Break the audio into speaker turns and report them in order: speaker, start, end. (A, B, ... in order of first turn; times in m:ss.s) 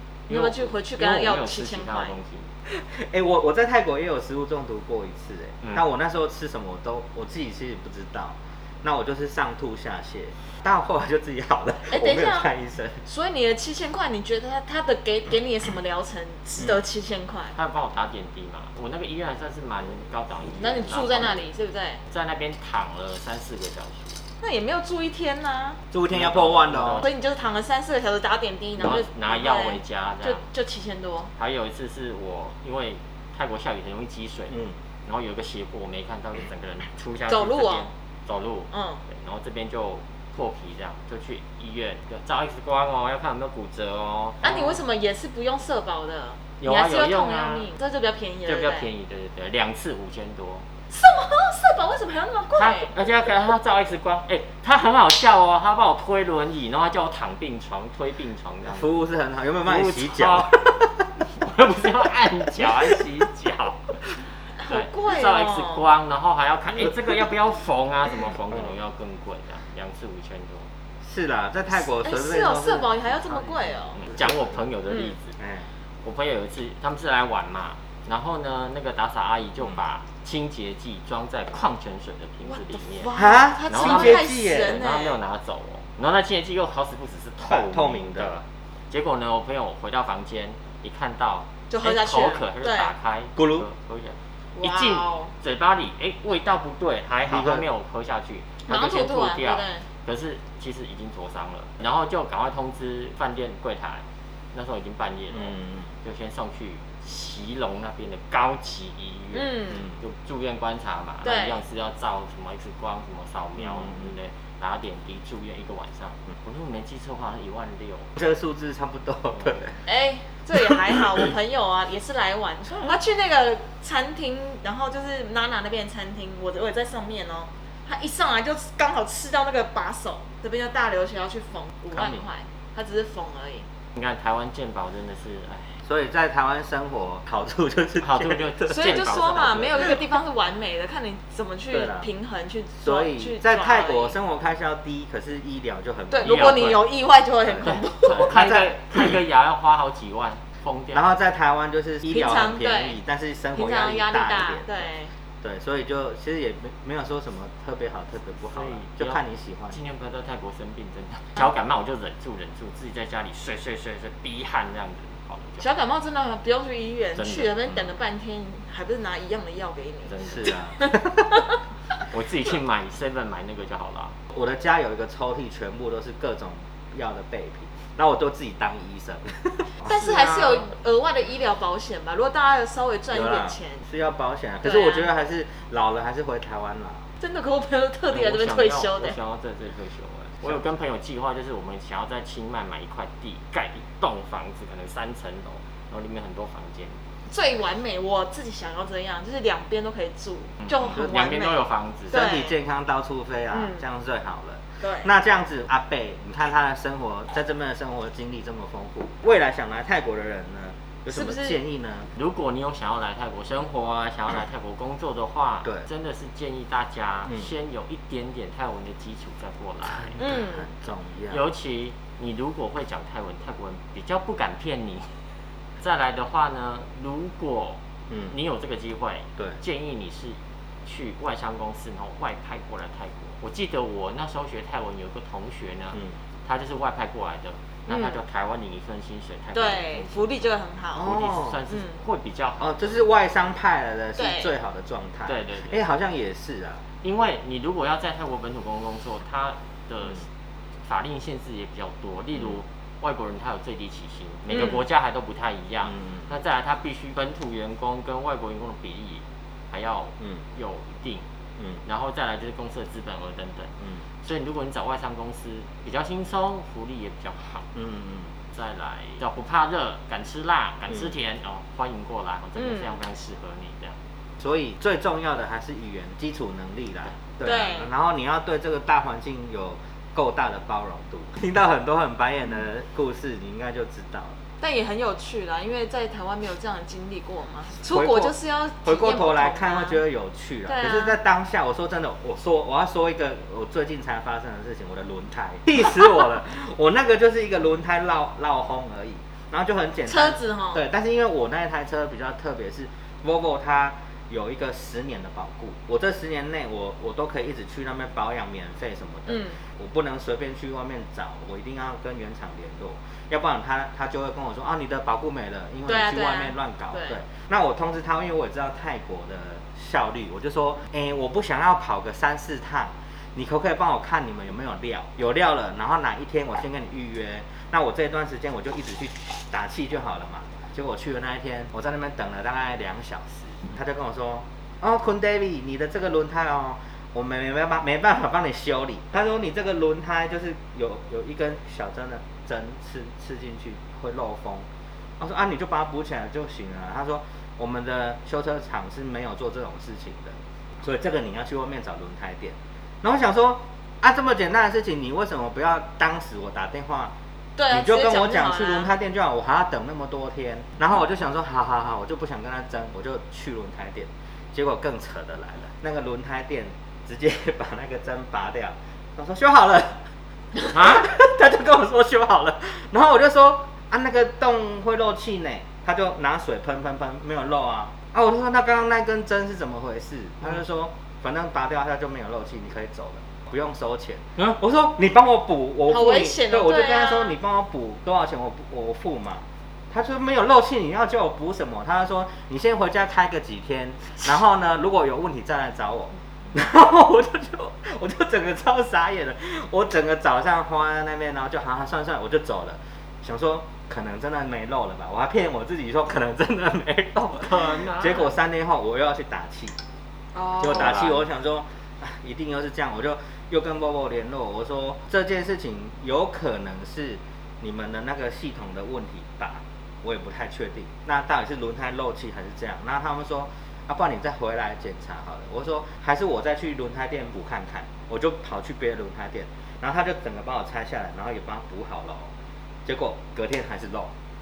0:00.3-0:02.1 A
0:00.3-0:02.5 B
0:02.7-0:13.0 C
0:11.9-0:12.5 A
0:13.0-0:17.6 A
0:17.5-0:21.4 B
0:20.6-0:22.0 A
0:22.1-0:24.2 B
0:24.4-0:25.8 A
0:25.9-0:27.0 C
0:26.1-0:27.1 B
0:27.0-0:31.3 A
0:28.8-0:30.4 B
0:31.4-0:44.7 B
0:34.5-0:34.8 C
0:37.3-0:37.9 A
0:38.7-0:39.0 A
0:44.4-0:48.9 A
0:46.6-0:47.7 B
0:48.4-0:50.7 B
0:50.9-0:52.9 A
0:52.5-0:58.9 B
0:58.6-1:01.0 C
0:59.6-1:00.7 B
1:01.3-1:04.0 B
1:04.6-1:05.8 A
1:04.6-1:10.7 B
1:11.0-1:14.5 C
1:11.8-1:14.0 A
1:13.9-1:15.4 B
1:15.4-1:15.6 C
1:16.0-1:23.1 B
1:22.5-1:25.2 A
1:23.1-1:24.8 C
1:23.7-1:58.1 B
1:27.4-1:28.3 C
1:31.7-1:32.9 A
1:33.4-1:33.6 C
1:34.6-1:35.3 A
1:37.3-1:37.6 C
1:38.7-1:39.8 A
1:45.3-1:45.9 C
1:49.3-1:49.9 A
1:51.2-1:51.6 A
1:53.6-1:54.1 C
1:58.2-1:59.8 C
1:59.8-2:13.7 A
2:11.9-2:12.2 C
2:14.0-2:15.8 B
2:15.8-2:19.0 C
2:18.0-2:20.0 B
2:18.7-2:24.2 A
2:21.7-2:22.1 C
2:22.8-2:26.8 C
2:26.1-2:28.4 A
2:26.2-2:26.8 B
2:27.4-2:28.7 C
2:27.6-2:31.1 B
2:30.9-2:34.8 C
2:32.1-2:33.0 A
2:33.5-2:35.1 A
2:35.4-2:39.8 C
2:38.5-2:45.6 B
2:45.6-2:50.2 A
2:47.1-2:47.8 B
2:50.0-2:50.6 B
2:50.2-2:51.2 C
2:52.0-2:54.2 B
2:54.3-3:00.6 C
2:59.8-3:03.8 A
3:03.1-3:07.0 C
3:04.6-3:05.1 A
3:07.2-3:09.2 A
3:08.1-3:17.0 B
3:17.3-3:22.6 A
3:20.7-3:22.2 B
3:20.8-3:21.5 C
3:22.1-3:32.1 C
3:23.5-3:23.8 A
3:24.8-3:25.1 A
3:31.1-3:31.6 A
3:32.1-3:40.2 B
3:40.0-3:41.4 C
3:40.2-3:40.7 A
3:41.3-3:45.1 B
3:45.8-4:00.4 B
3:57.9-3:58.2 A
3:59.5-4:01.2 A
4:00.9-4:01.6 C
4:01.0-4:03.0 B
4:01.7-4:02.0 A
4:02.6-4:06.8 C
4:04.2-4:04.5 A
4:05.2-4:05.8 B
4:07.0-4:10.3 B
4:10.8-4:21.2 B
4:16.0-4:16.3 C
4:21.8-4:27.7 B
4:27.7-4:28.3 C
4:28.5-4:34.0 B
4:32.6-4:33.0 A
4:34.4-4:44.4 C
4:37.4-4:37.9 A
4:44.6-4:50.0 A
4:47.9-5:44.6 C
4:50.6-4:51.2 A
5:00.1-5:00.8 A
5:09.3-5:09.6 A
5:15.9-5:17.2 A
5:45.2-5:57.1 C
5:57.6-5:58.9 A
5:57.7-6:10.0 C
6:10.6-6:49.8 C
6:10.7-6:11.1 B
6:25.9-6:27.4 A
6:47.3-6:48.3 B
6:50.3-6:51.0 A
6:50.6-7:12.3 C
6:50.6-6:51.2 B
7:12.8-7:14.1 C